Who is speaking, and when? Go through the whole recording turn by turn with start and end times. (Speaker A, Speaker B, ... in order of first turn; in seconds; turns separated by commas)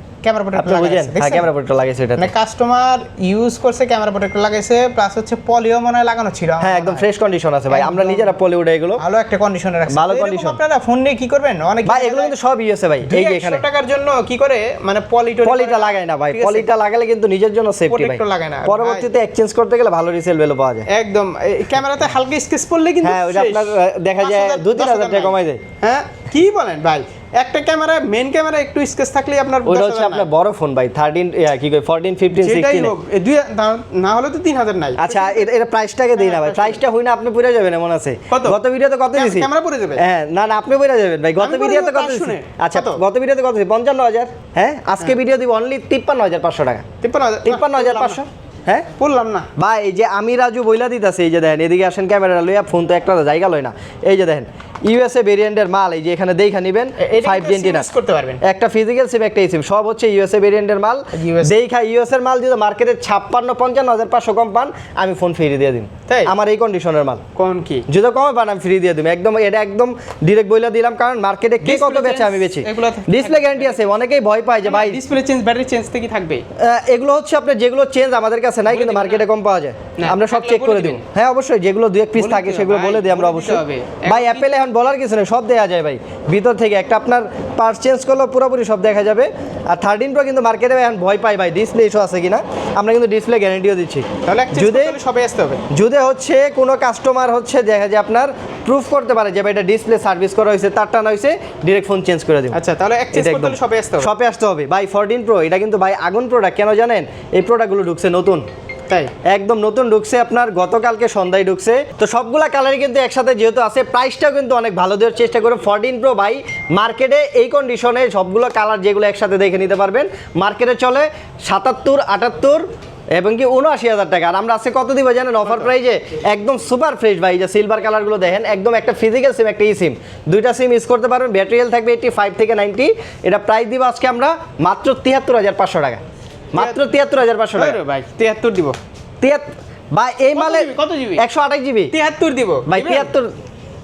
Speaker A: 0.2-1.5, Speaker B: 0.6-2.3, Speaker A: 2.1-7.0, Speaker B: 6.6-9.0, Speaker A: 7.7-8.3, Speaker A: 9.0-12.3, Speaker B: 9.9-10.6, Speaker B: 11.8-13.6, Speaker A: 13.1-16.7, Speaker B: 15.4-20.9, Speaker A: 17.9-19.1, Speaker A: 20.9-30.3, Speaker B: 23.0-25.6, Speaker B: 29.6-32.9, Speaker A: 32.3-35.5, Speaker B: 35.0-46.8, Speaker A: 36.1-36.8, Speaker A: 38.3-38.6, Speaker A: 39.1-40.0, Speaker A: 41.4-43.0, Speaker A: 47.0-48.2, Speaker B: 47.4-48.9, Speaker A: 49.0-49.5, Speaker B: 49.6-57.9, Speaker A: 57.0-58.4, Speaker B: 58.4-67.2, Speaker A: 61.1-61.5, Speaker A: 66.1-66.3, Speaker A: 67.3-67.8, Speaker B: 67.9-75.0, Speaker A: 71.6-73.8, Speaker A: 74.6-76.4, Speaker B: 76.6-95.0, Speaker A: 78.7-79.2, Speaker A: 80.0-81.0, Speaker A: 82.2-84.6, Speaker A: 94.2-95.6, Speaker B: 95.7-102.6, Speaker A: 102.5-104.1, Speaker B: 103.1-108.4, Speaker A: 108.9-109.1, Speaker B: 109.2-136.0, Speaker B: 136.5-137.8, Speaker A: 136.5-136.9, Speaker A: 137.5-138.8, Speaker B: 139.2-141.9, Speaker A: 140.3-141.2, Speaker A: 141.9-143.1, Speaker B: 142.7-143.3